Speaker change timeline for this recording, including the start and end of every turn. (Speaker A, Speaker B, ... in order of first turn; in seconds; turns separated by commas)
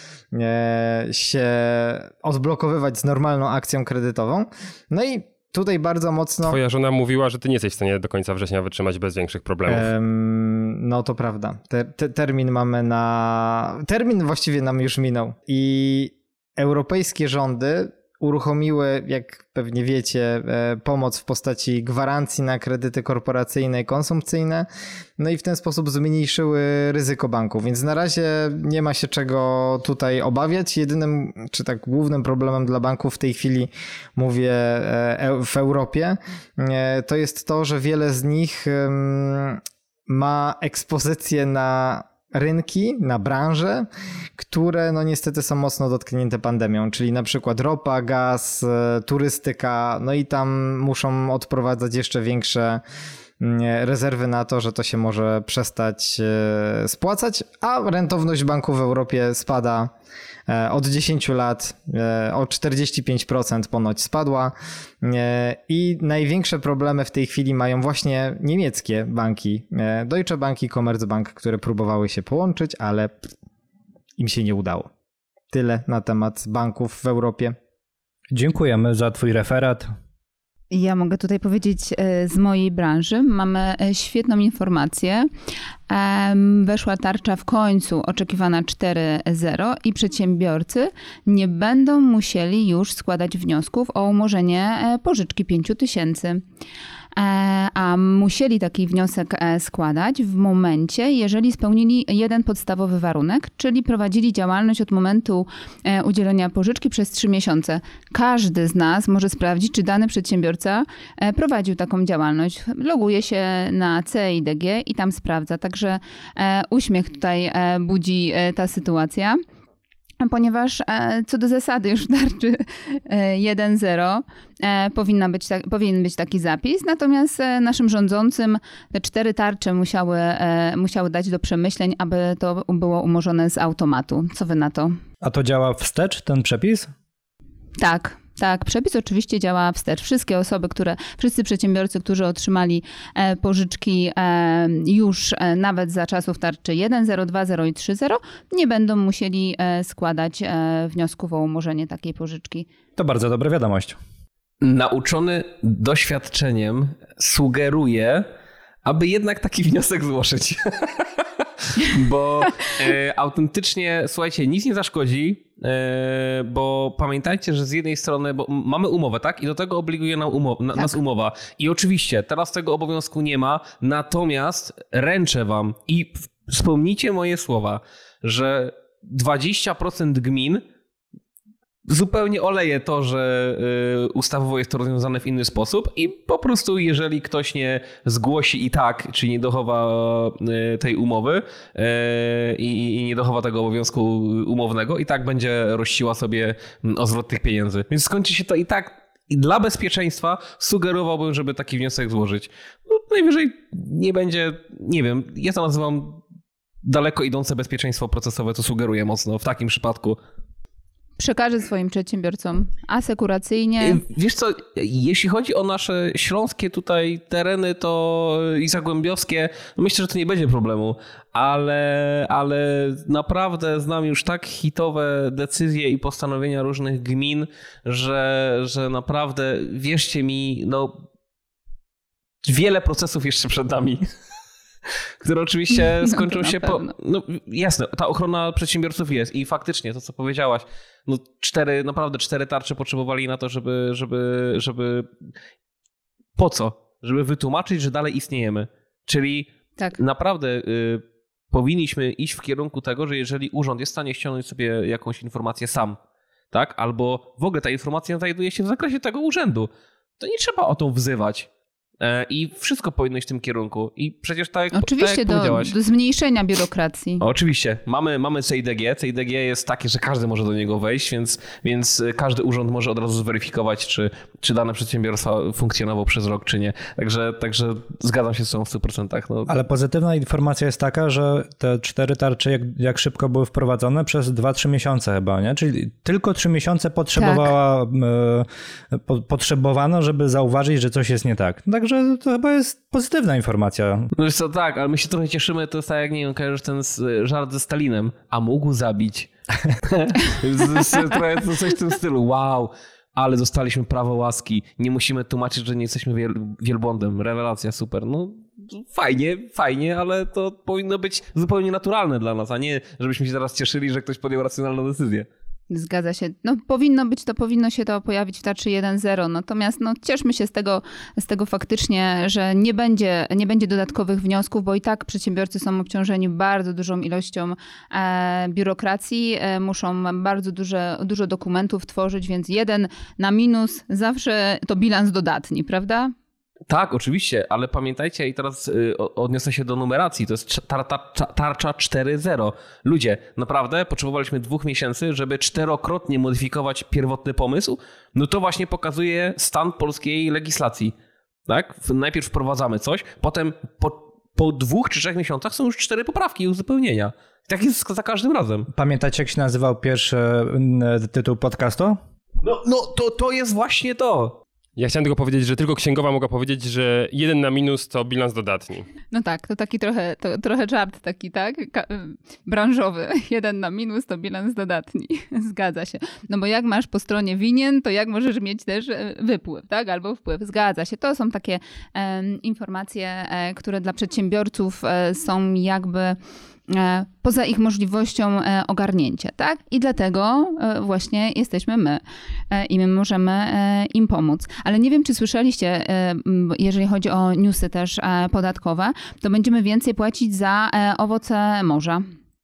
Speaker A: 0.3-6.6, Speaker B: 6.5-9.9, Speaker A: 9.7-24.7, Speaker A: 25.2-52.8, Speaker A: 53.4-59.9, Speaker A: 60.5-73.1, Speaker A: 74.2-74.9, Speaker A: 75.5-77.5, Speaker C: 78.3-79.9, Speaker D: 80.7-85.3, Speaker D: 85.9-96.4, Speaker D: 97.2-119.4, Speaker D: 120.2-134.9, Speaker C: 135.2-136.9, Speaker D: 137.8-152.7, Speaker C: 153.0-154.0, Speaker E: 154.6-158.3, Speaker E: 158.8-180.6, Speaker E: 181.9-206.2, Speaker E: 206.8-210.2, Speaker D: 211.2-214.0, Speaker E: 213.8-231.0, Speaker E: 232.4-234.0, Speaker E: 235.2-245.1, Speaker D: 236.0-236.9, Speaker E: 246.4-256.0, Speaker E: 256.5-261.5, Speaker E: 262.0-265.7, Speaker D: 264.7-267.2, Speaker E: 267.2-279.5, Speaker C: 279.5-294.1, Speaker D: 287.2-287.5, Speaker E: 294.1-299.3, Speaker E: 299.8-315.3, Speaker D: 315.7-336.1, Speaker E: 336.7-350.9, Speaker E: 351.5-358.7, Speaker C: 358.7-362.0, Speaker E: 362.4-364.4, Speaker B: 364.8-368.9, Speaker D: 369.1-402.0